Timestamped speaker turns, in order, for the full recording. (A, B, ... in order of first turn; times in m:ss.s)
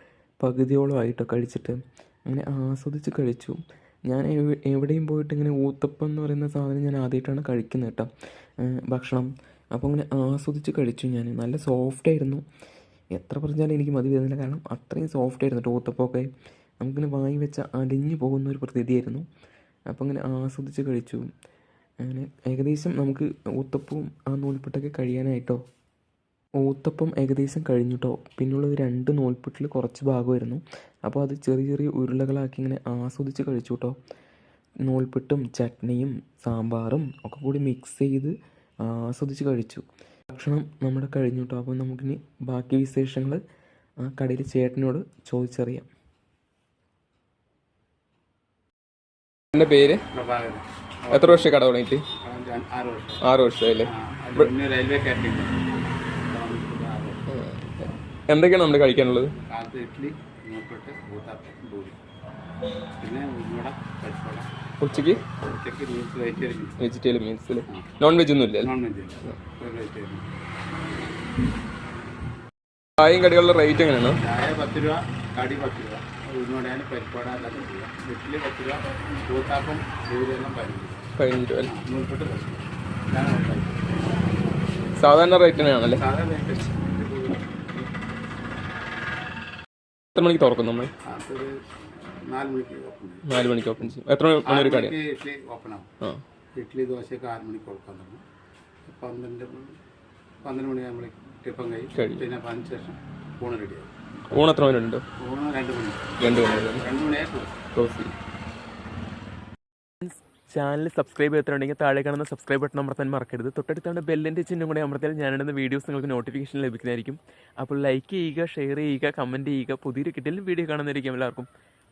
0:00.4-0:08.1 A
0:08.6-0:12.4 A
0:13.2-0:16.3 A
0:16.8-0:19.2 A
0:19.9-0:21.2 A
0:22.0-0:25.6 A
0:26.6-0:34.0 A
0:34.8-0:43.4 A
0:44.0-0:45.9 A
0:49.5-0:50.0 B
0:50.1-0:51.6 C
0:51.1-0:52.0 B
0:52.1-0:53.2 C
0:53.2-0:54.5 B
0:53.8-0:57.2 C
0:57.3-0:59.3 B
0:59.4-1:02.0 C
1:03.0-1:06.9 C
1:04.8-1:05.2 B
1:06.8-1:08.7 B
1:08.6-1:10.3 C
1:13.0-1:14.2 B
1:14.1-1:21.1 C
1:21.2-1:21.7 B
1:21.6-1:24.2 C
1:25.0-1:26.0 B
1:25.6-1:27.8 C
1:30.1-1:30.9 B
1:31.0-1:33.4 C
1:33.2-1:34.9 B
1:34.4-1:35.9 C
1:36.6-1:38.2 C
1:38.9-1:39.8 C
1:40.4-1:43.9 C
1:42.0-1:42.2 B
1:44.3-1:45.0 B
1:45.2-1:47.6 C
1:46.2-1:46.8 B
1:47.8-1:48.1 B
1:50.0-2:01.5 A